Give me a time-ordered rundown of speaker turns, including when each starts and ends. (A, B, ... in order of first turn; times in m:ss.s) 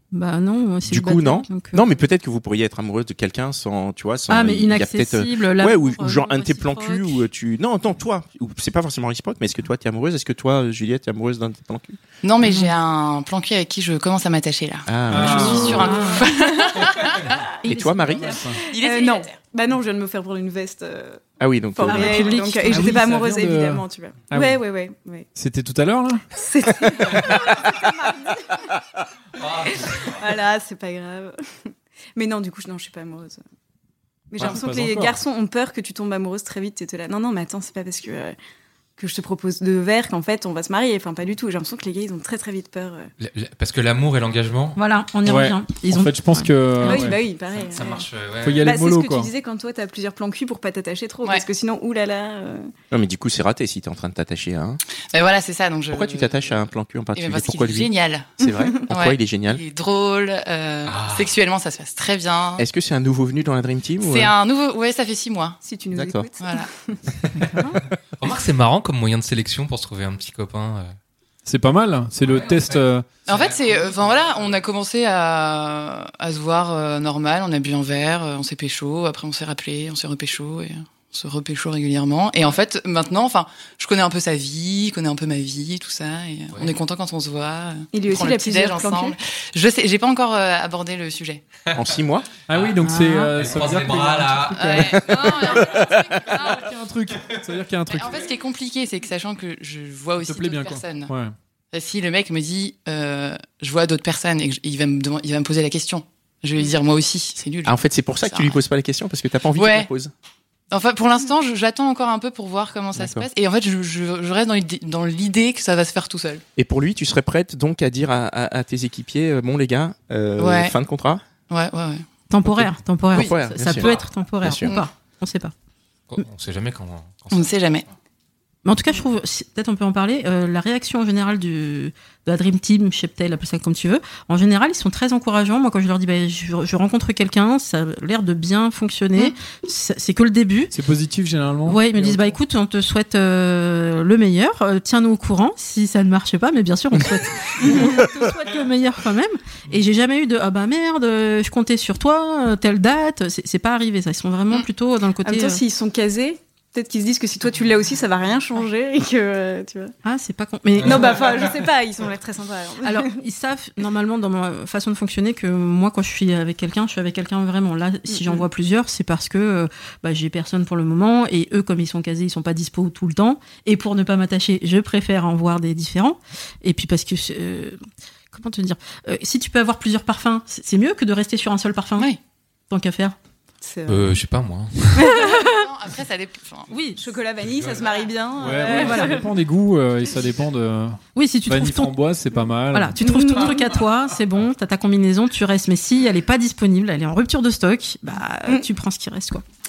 0:00.1-0:01.8 A
0:00.9-0:12.0 B
0:04.3-0:07.3 A
0:12.2-0:17.4 C
0:12.4-0:12.7 A
0:14.9-0:16.1 B
0:15.1-0:16.0 D
0:15.2-0:16.3 A
0:16.2-0:17.0 E
0:17.6-0:18.4 A
0:17.7-0:18.4 B
0:18.2-0:18.6 D
0:18.7-0:19.3 C
0:18.7-0:21.2 E
0:21.4-0:22.4 B
0:21.7-0:25.3 E
0:21.9-0:23.0 A
0:22.6-0:24.6 D
0:25.4-0:26.2 D
0:26.3-0:28.6 E
0:29.4-0:30.3 F
0:29.6-0:33.4 E
0:34.3-0:38.4 E
0:34.4-0:35.2 D
0:39.0-0:43.1 E
0:43.2-0:44.8 F
0:44.8-0:47.1 A
0:45.2-0:47.2 D
0:46.8-0:48.1 E
0:47.5-0:48.7 F
0:48.4-0:49.3 D
0:48.6-0:52.7 E
0:52.9-0:54.8 B
0:55.1-0:56.6 C
0:55.9-0:59.6 B
0:57.1-1:02.6 C
1:00.9-1:01.3 F
1:02.6-1:04.3 B
1:04.0-1:05.6 C
1:05.6-1:07.0 E
1:05.9-1:06.3 B
1:06.4-1:06.7 C
1:07.5-1:07.8 A
1:08.2-1:10.9 F
1:11.5-1:13.1 D
1:12.2-1:14.6 F
1:13.3-1:31.4 C
1:27.9-1:29.2 E
1:31.8-1:32.4 B
1:32.5-1:34.8 D
1:32.5-1:35.9 F
1:32.8-1:33.4 A
1:34.6-1:36.6 C
1:34.9-1:36.5 B
1:36.4-1:38.2 D
1:37.9-1:41.1 C
1:40.2-1:41.4 D
1:41.7-1:48.6 C
1:47.7-1:50.1 B
1:49.6-1:49.9 C
1:50.7-1:56.4 C
1:53.0-1:53.3 B
1:56.6-2:01.2 B
2:00.4-2:00.8 C
2:01.5-2:02.0 C
2:02.3-2:05.5 A
2:02.5-2:04.8 B
2:06.1-2:07.8 F
2:07.3-2:07.8 C
2:08.6-2:20.7 A
2:20.7-2:22.4 D
2:21.6-2:35.6 A
2:35.2-2:39.9 E
2:40.0-2:41.2 A
2:40.8-2:43.1 E
2:40.8-2:41.3 F
2:42.8-2:57.8 A
2:48.1-2:48.4 E
2:58.3-3:02.1 A
3:02.7-3:03.2 A
3:03.6-3:04.2 E
3:03.9-3:05.2 F
3:05.0-3:06.7 C
3:05.1-3:05.6 A
3:06.7-3:07.0 A
3:07.0-3:09.3 E
3:07.4-3:07.9 F
3:08.4-3:13.0 D
3:08.7-3:09.2 A
3:11.2-3:12.0 A
3:12.7-3:19.4 A
3:13.0-3:13.7 E